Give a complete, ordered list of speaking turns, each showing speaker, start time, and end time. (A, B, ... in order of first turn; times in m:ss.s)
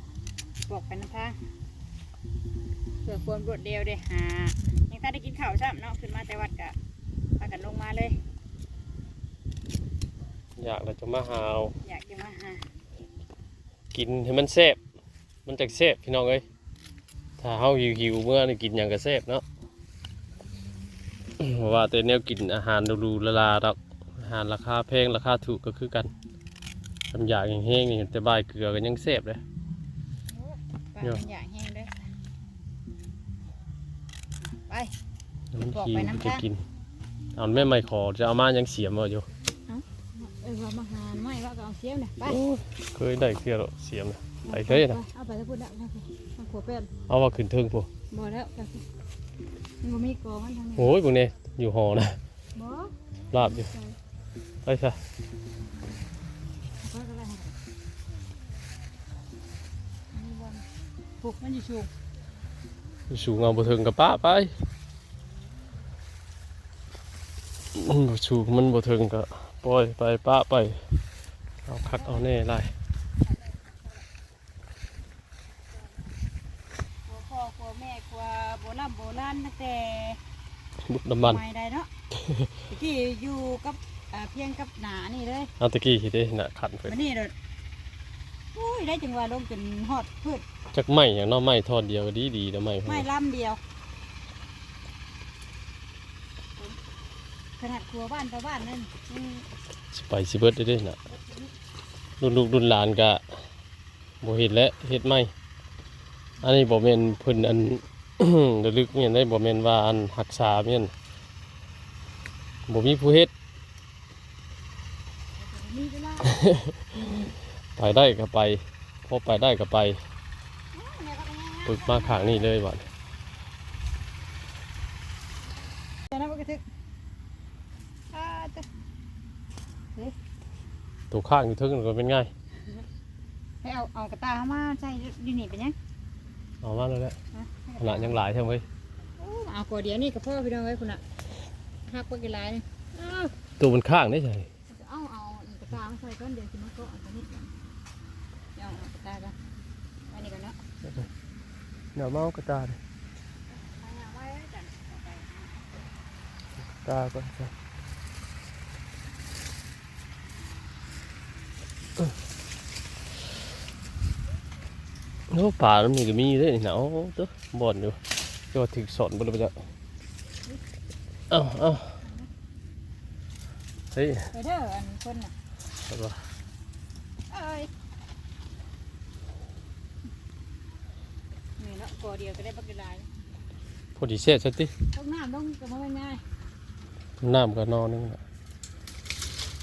0:00.7-0:01.4 A
0:03.0-0:06.8 A
0:07.4-0:08.2 A
0:10.6-0:11.7 B
0:11.8-0:12.6 A
0:13.9-0:14.8 B
0:15.4-0:16.4 B
0:17.4-0:19.4 B
0:21.4-0:26.1 B
0:27.1-0:29.4 B
0:30.4-0:32.0 A
0:34.7-0:34.9 A
0:35.5-0:36.6 B
0:35.6-0:36.4 A
0:37.4-0:39.3 B
0:39.7-0:42.4 A
0:42.2-0:45.0 B
0:44.4-0:46.9 A
0:47.1-0:47.9 B
0:48.1-0:48.8 A
0:49.8-0:50.9 A
0:50.8-0:52.2 B
0:52.5-0:54.0 A
0:53.3-0:53.7 B
0:54.6-0:55.0 B
0:56.8-0:57.5 A
1:00.1-1:00.6 A
1:01.2-1:01.9 A
1:03.1-1:04.5 B
1:07.7-1:10.8 B
1:11.6-1:12.7 B
1:11.9-1:12.3 A
1:13.4-1:13.7 A
1:17.1-1:20.2 A
1:20.8-1:21.4 B
1:21.2-1:21.9 A
1:22.1-1:22.5 B
1:22.7-1:25.5 A
1:25.6-1:27.0 B
1:26.8-1:27.3 A
1:28.5-1:30.4 A
1:30.7-1:33.1 B
1:32.8-1:33.6 A
1:37.6-1:39.4 A
1:39.9-1:41.0 B
1:42.2-1:43.2 B
1:44.2-1:45.3 B
1:46.4-1:50.9 B
1:52.7-1:53.3 B
1:55.4-1:56.4 A
1:56.2-1:56.9 B
1:57.8-2:00.0 B
2:00.7-2:02.5 A
2:01.7-2:02.8 B
2:06.1-2:06.6 A
2:08.1-2:08.6 A
2:11.1-2:12.3 B
2:13.6-2:15.7 A
2:16.6-2:17.2 B
2:17.3-2:18.2 A
2:17.8-2:18.6 B
2:19.2-2:21.0 A
2:21.9-2:23.3 A
2:23.6-2:24.5 B
2:24.7-2:27.5 A
2:28.6-2:29.3 A
2:30.1-2:30.6 A
2:31.9-2:32.8 B
2:33.5-2:35.5 A
2:36.8-2:37.5 B
2:45.3-2:48.0 B
2:48.5-2:49.5 B
2:51.3-2:52.0 B
2:52.0-2:52.3 A
2:53.9-2:54.3 B
2:54.3-2:55.3 A
2:55.9-2:56.2 B
2:57.3-2:57.7 A
3:01.6-3:03.1 A
3:04.0-3:04.7 B
3:04.9-3:06.2 A
3:07.2-3:08.2 B